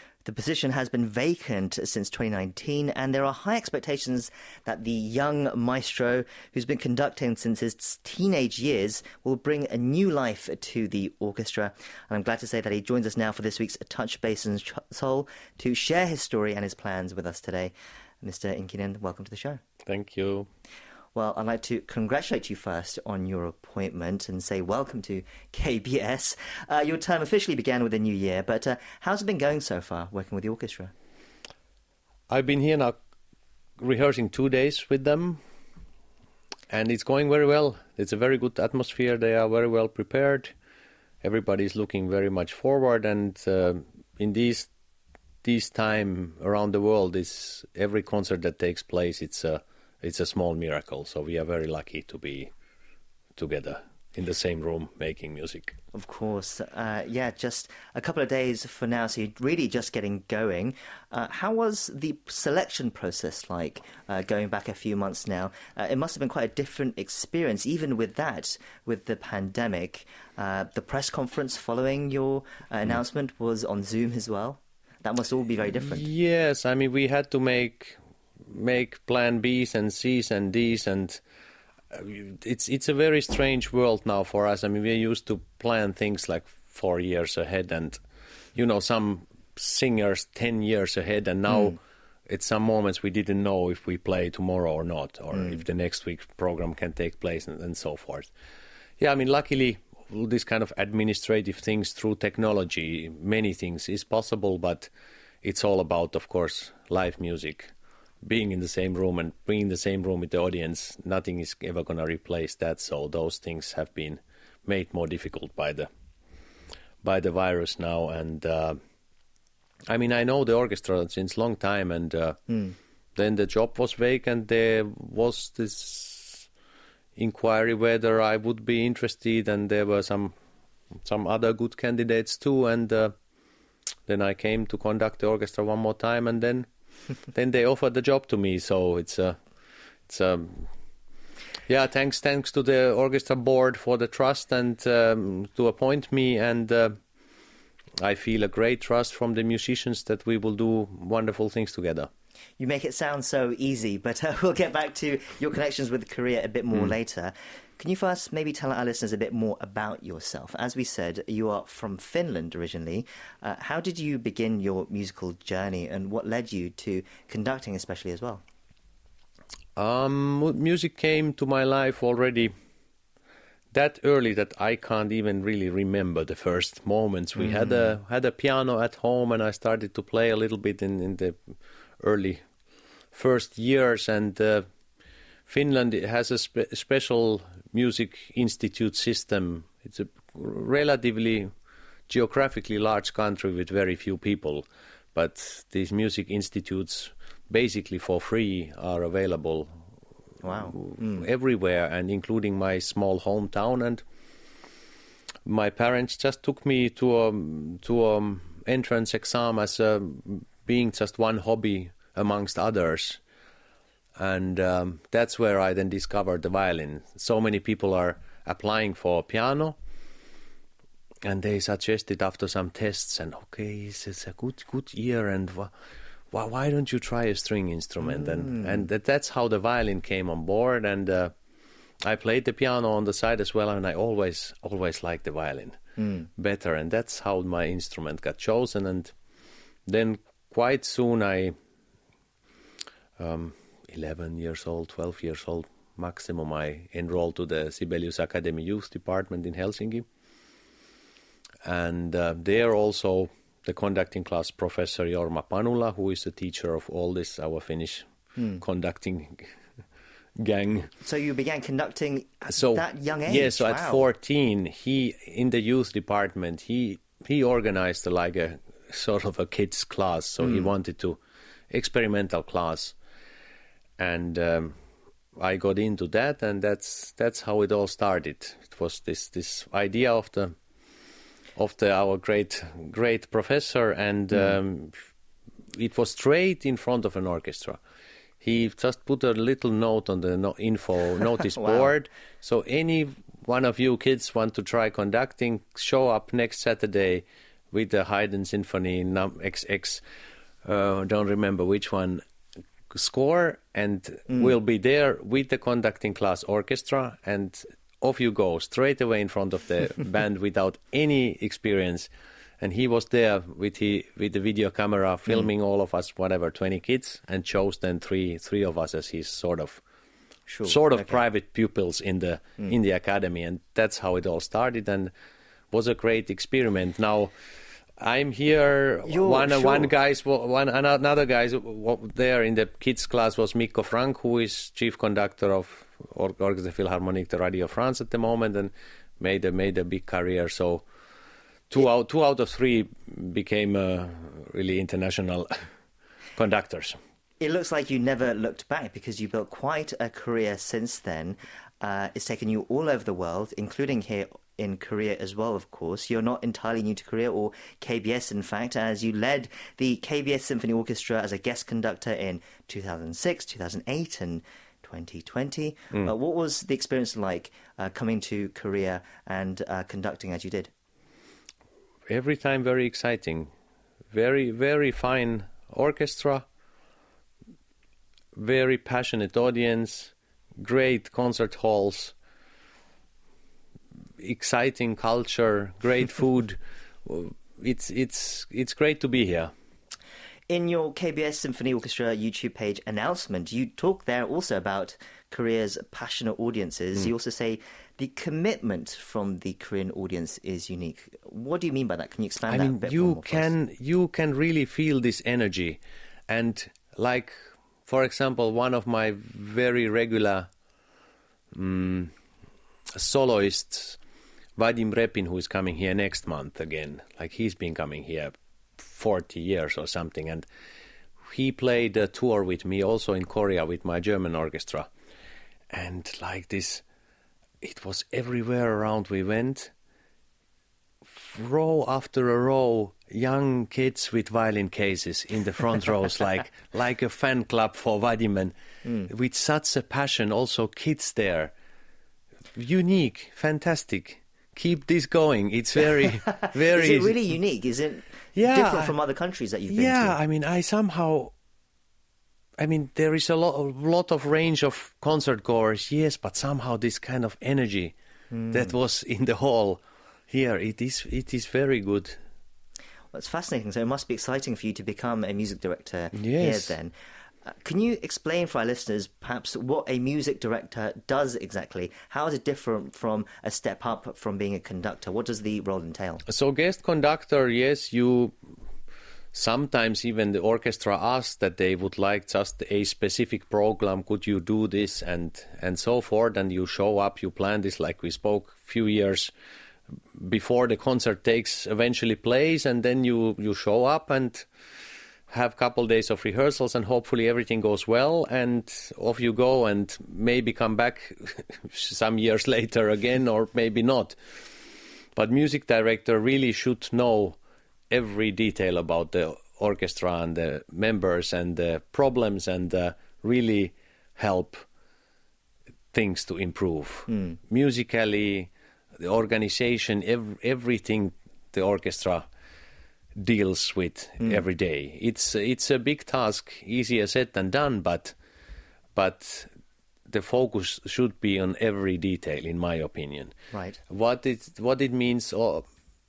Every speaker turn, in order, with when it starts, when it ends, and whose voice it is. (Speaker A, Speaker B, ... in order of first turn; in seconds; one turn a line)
Speaker A: 0.2-19.6
Speaker B: 19.9-20.5
Speaker A: 21.1-30.9
Speaker B: 32.3-33.0
Speaker B: 33.8-35.4
Speaker B: 36.7-40.5
Speaker B: 41.2-44.7
Speaker B: 45.4-52.5
Speaker B: 53.4-55.8
Speaker A: 55.9-76.1
Speaker B: 75.8-81.2
Speaker B: 81.9-88.0
Speaker B: 88.5-98.3
Speaker B: 99.0-104.9
Speaker B: 105.4-107.7
Speaker B: 108.2-115.9
Speaker B: 117.0-118.8
Speaker B: 119.9-122.4
Speaker A: 122.5-122.8
Speaker B: 123.2-126.5
Speaker B: 127.2-130.3
Speaker B: 131.0-133.1
Speaker B: 134.1-136.7
Speaker B: 137.3-139.4
Speaker B: 140.1-140.7
Speaker B: 141.7-147.0
Speaker B: 148.0-152.1
Speaker A: 152.6-168.4
Speaker B: 169.8-172.5
Speaker B: 173.7-181.4
Speaker A: 177.4-177.8
Speaker B: 182.0-182.4
Speaker B: 183.1-184.7
Speaker B: 185.5-191.5
Speaker B: 192.1-199.7
Speaker A: 200.4-201.2
Speaker B: 200.7-204.0
Speaker B: 205.5-213.2
Speaker B: 214.2-219.8
Speaker B: 221.2-225.7
Speaker B: 226.3-231.3
Speaker A: 228.2-228.8
Speaker B: 232.0-235.8
Speaker A: 236.0-236.3
Speaker B: 236.4-239.1
Speaker B: 239.9-241.6
Speaker B: 243.2-250.1
Speaker B: 251.6-258.1
Speaker A: 258.4-258.6
Speaker B: 258.6-259.4
Speaker B: 260.4-260.9
Speaker A: 261.0-264.1
Speaker B: 262.5-271.2
Speaker A: 270.4-270.7
Speaker B: 271.7-272.9
Speaker B: 274.0-274.8
Speaker B: 275.4-280.5
Speaker B: 281.6-284.9
Speaker B: 285.7-287.8
Speaker B: 288.4-300.0
Speaker A: 291.6-291.9
Speaker B: 300.6-302.2
Speaker B: 302.9-312.1
Speaker B: 312.6-319.8
Speaker A: 320.5-321.2
Speaker B: 320.6-325.1
Speaker B: 325.7-327.3
Speaker B: 328.0-340.9
Speaker A: 329.1-329.9
Speaker B: 341.7-345.5
Speaker B: 346.4-347.0
Speaker A: 347.4-370.7
Speaker B: 372.1-373.5
Speaker B: 374.1-376.4
Speaker B: 378.4-382.1
Speaker B: 384.2-389.5
Speaker A: 390.5-403.6
Speaker B: 402.5-410.5
Speaker B: 411.5-412.1
Speaker B: 412.9-414.0
Speaker B: 414.6-420.5
Speaker B: 421.3-424.9
Speaker B: 425.7-426.9
Speaker B: 427.6-429.7
Speaker B: 431.1-438.5
Speaker A: 438.8-439.1
Speaker B: 439.1-441.5
Speaker B: 442.6-447.2
Speaker A: 446.2-450.2
Speaker B: 448.4-448.9
Speaker B: 449.7-451.3
Speaker B: 452.6-457.9
Speaker A: 458.3-458.7
Speaker B: 458.5-462.2
Speaker A: 463.1-466.9
Speaker B: 466.1-466.7
Speaker A: 467.4-476.2
Speaker B: 476.3-478.3
Speaker B: 479.3-489.3
Speaker B: 490.2-494.5
Speaker B: 495.3-504.2
Speaker B: 505.2-507.4
Speaker B: 507.9-514.6
Speaker B: 515.9-522.3
Speaker A: 517.1-517.4
Speaker B: 523.2-528.1
Speaker B: 529.0-529.5
Speaker B: 530.1-533.3
Speaker A: 533.5-533.8
Speaker B: 533.9-535.6